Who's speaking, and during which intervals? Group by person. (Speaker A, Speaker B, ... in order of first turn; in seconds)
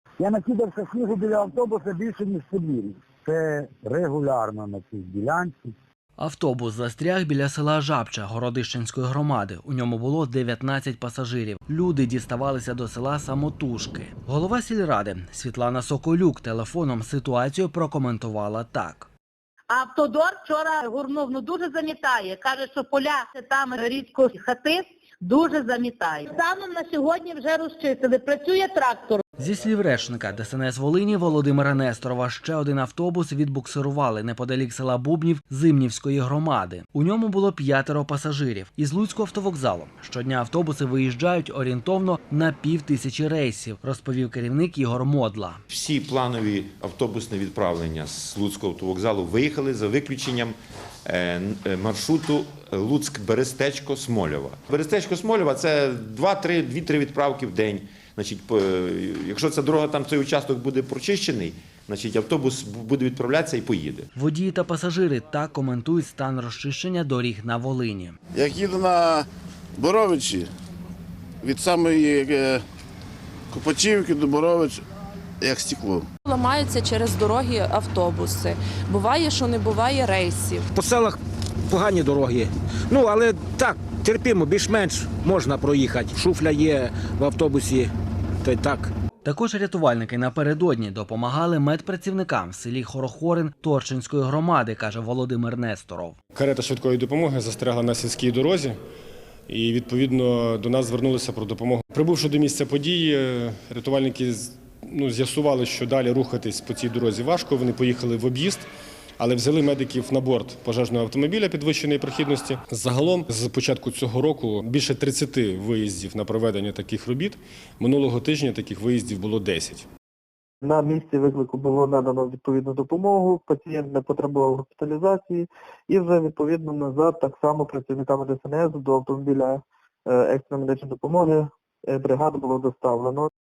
Speaker A: 0.2-5.7
Speaker B: 6.2-19.1, 29.4-45.6, 64.1-68.2, 89.2-96.2
Speaker C: 19.7-29.2
Speaker D: 45.7-50.5, 51.0-64.1
Speaker E: 68.3-70.5, 71.4-72.6, 73.5-74.8, 75.4-76.0
Speaker F: 76.2-80.7
Speaker G: 80.7-88.9
Speaker H: 96.3-98.8, 99.5-108.7, 109.2-119.8
Speaker I: 120.6-133.3